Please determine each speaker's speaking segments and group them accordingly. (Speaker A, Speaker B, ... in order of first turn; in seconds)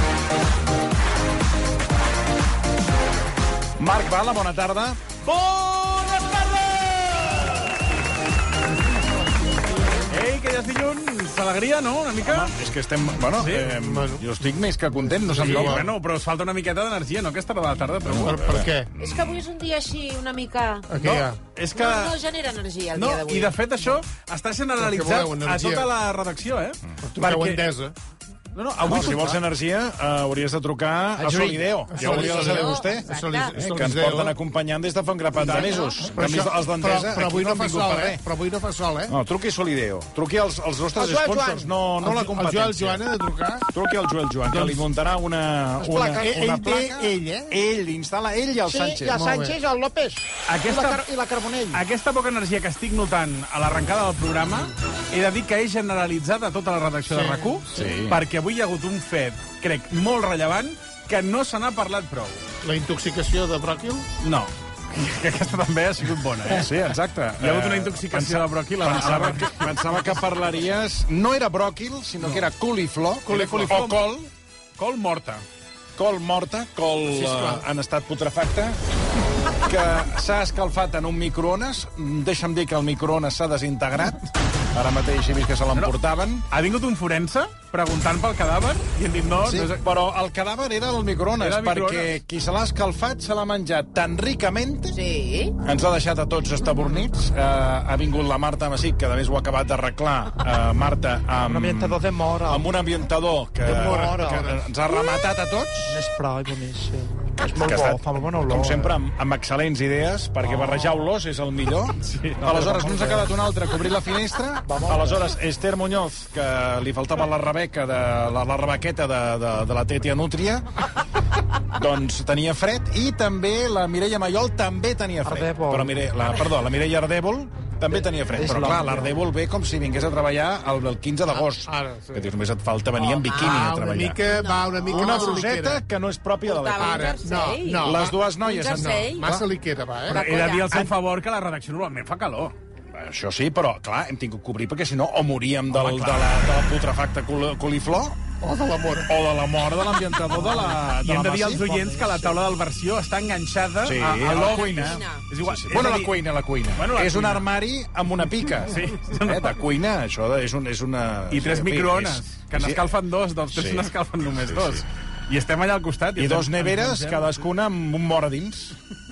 Speaker A: 3.8-5.0, 12.2-15.9, 18.1-19.4, 28.8-38.2, 39.1-43.0, 43.7-49.2, 57.7-58.2, 66.5-74.3, 76.0-78.8, 79.5-86.5, 89.4-95.0, 95.6-106.0, 107.4-120.7, 121.7-134.2, 134.9-137.2, 137.8-139.5, 140.7-140.9, 142.9-148.2, 149.1-152.2, 153.8-162.8, 163.5-164.8, 166.2-168.8
Speaker B: 5.2-7.5, 10.1-12.5, 13.4-13.6, 15.4-18.4, 21.0-22.2, 22.9-27.6, 28.5-29.4, 50.5-51.0, 51.7-62.4, 64.2-66.7, 67.4-70.0, 73.2-74.2, 74.8-75.4, 86.5-89.8, 91.4-92.1, 112.1-112.6, 140.1-142.5, 145.7-146.5, 150.3-156.2, 156.8-157.5, 158.6-159.6, 161.3-167.4
Speaker C: 13.4-14.2, 15.0-15.9, 18.2-18.9, 20.9-21.4, 24.8-25.9, 27.0-27.9, 28.9-29.2, 31.2-34.4, 35.4-39.1, 42.0-43.7, 44.5-44.8, 49.1-49.5, 57.1-57.5, 62.6-64.0, 73.3-73.8, 77.1-77.6, 103.7-104.6, 128.6-129.0, 131.4-132.3, 133.3-135.8, 136.8-140.2, 148.4-149.1
Speaker D: 19.0-20.9, 21.7-23.6, 32.1-33.5, 35.5-36.1, 94.9-95.5, 132.9-133.7, 134.2-135.5, 136.4-139.3, 140.1-140.8, 154.3-155.2
Speaker E: 41.0-41.7, 45.8-47.3, 48.6-51.8, 101.4-102.7, 103.6-104.5, 105.8-108.9, 112.4-113.2, 114.6-115.2, 125.2-126.0, 128.3-129.0